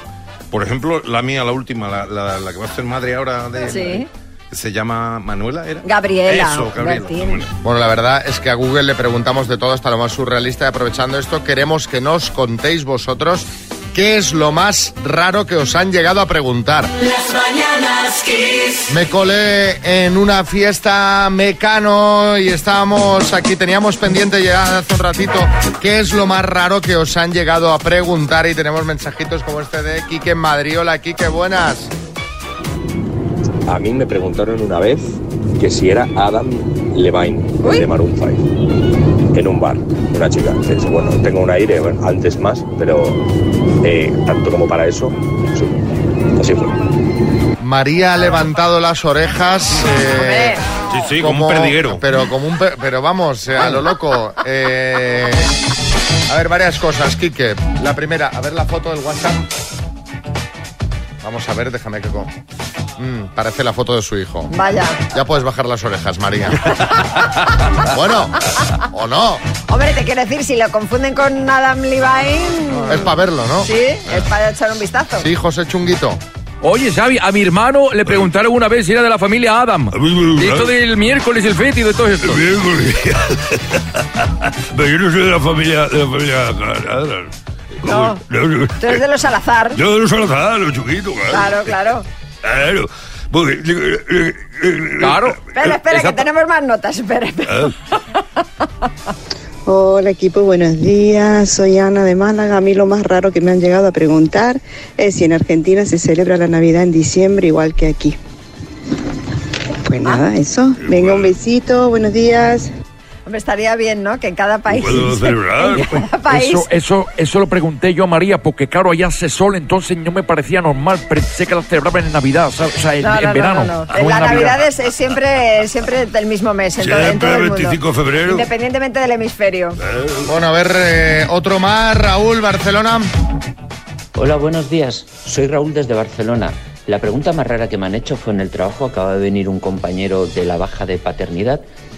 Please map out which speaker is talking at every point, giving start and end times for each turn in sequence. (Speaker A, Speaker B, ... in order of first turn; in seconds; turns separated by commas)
Speaker A: 0.5-7.5, Speaker B: 3.6-4.1, Speaker B: 5.8-7.4, Speaker C: 7.6-16.9, Speaker C: 18.9-31.9, Speaker D: 33.7-34.1, Speaker D: 34.9-38.3, Speaker D: 39.4-41.6, Speaker D: 42.1-43.2, Speaker D: 43.9-45.1, Speaker C: 47.6-50.6, Speaker A: 50.9-52.0, Speaker C: 51.2-55.5, Speaker C: 56.3-59.5, Speaker C: 61.2-62.3, Speaker C: 63.0-64.5, Speaker B: 64.5-65.0, Speaker C: 65.0-66.8, Speaker C: 67.8-69.4, Speaker B: 69.7-73.1, Speaker C: 72.9-73.7, Speaker B: 73.6-75.3, Speaker C: 75.2-76.2, Speaker E: 76.6-82.4, Speaker F: 79.9-80.7, Speaker F: 82.2-84.0, Speaker F: 84.7-87.3, Speaker F: 87.8-89.0, Speaker B: 87.9-88.2, Speaker B: 88.8-89.8, Speaker F: 89.8-91.6, Speaker B: 91.3-92.0, Speaker F: 92.4-95.3, Speaker E: 95.0-95.4, Speaker B: 95.5-97.7, Speaker G: 99.7-108.2, Speaker G: 109.8-112.7, Speaker F: 110.8-111.3, Speaker B: 113.2-116.7, Speaker F: 114.7-115.9, Speaker E: 116.3-124.6, Speaker B: 123.0-129.8, Speaker F: 126.8-128.5, Speaker F: 129.9-130.2, Speaker C: 130.2-133.1, Speaker H: 134.1-141.6